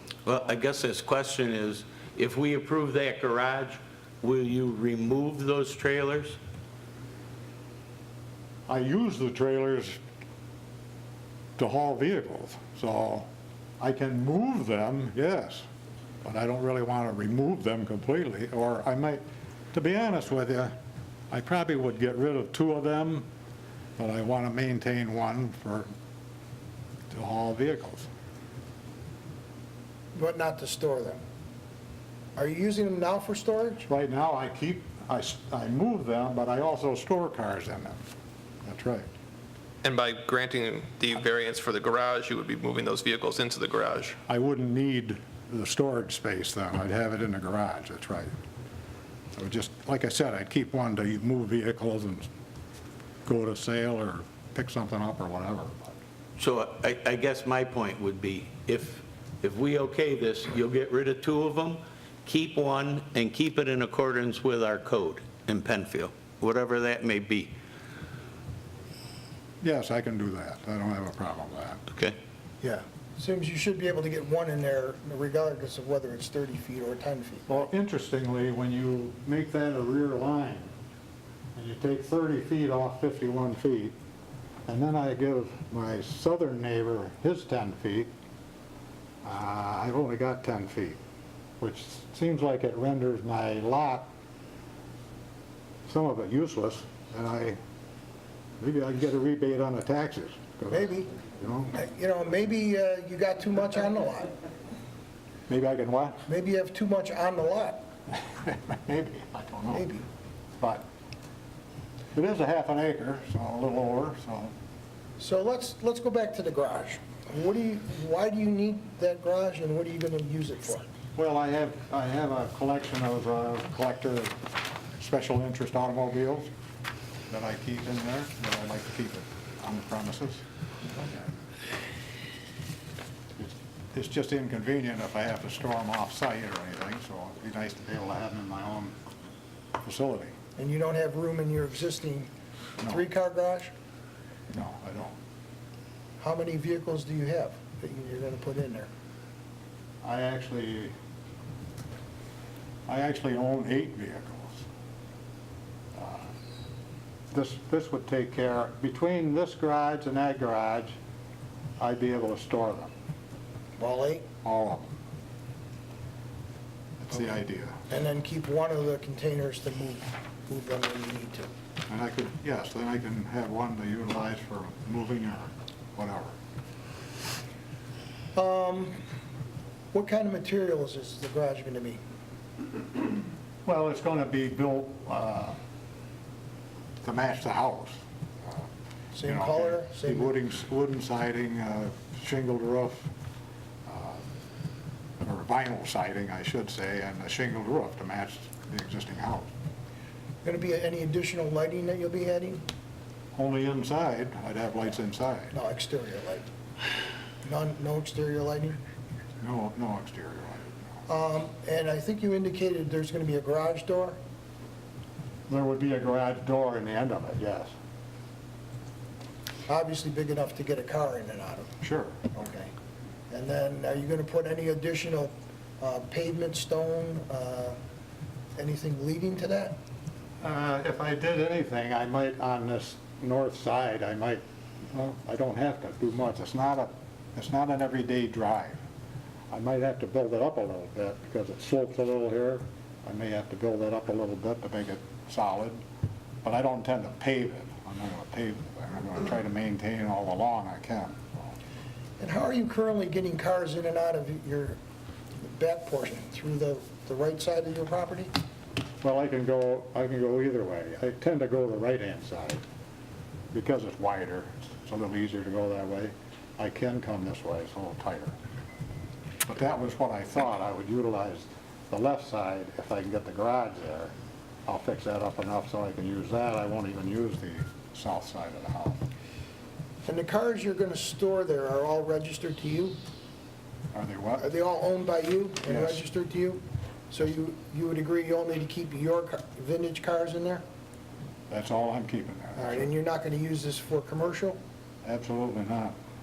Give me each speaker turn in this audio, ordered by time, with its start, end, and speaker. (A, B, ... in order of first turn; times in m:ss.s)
0:00.2-0:06.4 A
0:08.7-0:10.0 B
0:11.6-0:13.3 B
0:13.8-0:15.7 B
0:16.2-0:20.8 B
0:21.3-0:23.2 B
0:24.0-0:25.9 B
0:27.1-0:28.1 B
0:30.1-0:31.2 C
0:32.4-0:33.9 C
0:33.9-0:38.0 B
0:38.6-0:39.1 B
0:39.8-0:44.2 D
0:44.3-0:48.3 B
0:49.4-0:52.3 B
0:53.3-0:56.0 B
0:56.4-1:07.5 A
1:09.6-1:11.8 B
1:11.9-1:12.2 A
1:12.6-1:17.6 C
1:17.5-1:20.7 B
1:21.6-1:24.0 B
1:24.7-1:28.1 B
1:29.2-1:31.0 B
1:31.6-1:34.1 B
1:35.9-1:37.6 B
1:38.6-1:41.8 B
1:40.7-1:41.1 C
1:41.8-1:44.3 C
1:45.5-1:46.2 B
1:46.3-1:47.8 C
1:48.3-1:49.9 B
1:49.7-1:50.0 C
1:50.6-1:50.9 B
1:52.1-1:54.5 B
1:55.2-2:00.9 C
2:01.2-2:04.3 B
2:05.0-2:06.5 B
2:07.3-2:10.4 B
2:11.0-2:11.2 B
2:13.4-2:19.0 B
2:19.8-2:20.3 B
2:20.6-2:22.3 C
2:22.9-2:23.7 C
2:24.5-2:25.2 B
2:26.2-2:28.9 C
2:30.0-2:30.9 B
2:32.9-2:34.6 B
2:35.9-2:36.3 B
2:37.3-2:41.0 B
2:41.8-2:42.9 B
2:43.8-2:44.3 C
2:44.4-2:45.0 B
2:47.0-2:47.8 B
2:47.9-2:51.5 C
2:51.9-2:56.4 B
2:58.3-2:59.0 C
2:59.9-3:02.0 C
3:03.6-3:05.6 B
3:07.0-3:08.7 B
3:09.1-3:10.4 C
3:09.2-3:13.1 B
3:13.8-3:14.2 B
3:15.2-3:19.5 B
3:20.4-3:22.6 C
3:23.3-3:25.5 B
3:25.5-3:26.5 C
3:27.4-3:28.8 C
3:29.4-3:30.8 B
3:31.1-3:34.2 C
3:35.5-3:37.7 B
3:39.7-3:41.7 C
3:41.8-3:42.2 B
3:42.3-3:42.7 C
3:43.3-3:47.8 C
3:48.6-3:49.8 C
3:50.4-3:58.8 B
3:59.5-4:05.8 B
4:06.4-4:11.5 B
4:12.2-4:14.8 C
4:15.4-4:18.3 C
4:19.0-4:22.6 B
4:23.5-4:28.3 B
4:29.4-4:34.1 B
4:34.6-4:39.0 B
4:40.0-4:43.0 C
4:43.9-4:44.5 B
4:44.4-4:50.6 C
4:45.7-4:46.0 B
4:51.5-4:52.9 B
4:52.5-4:54.6 C
4:55.0-4:56.0 B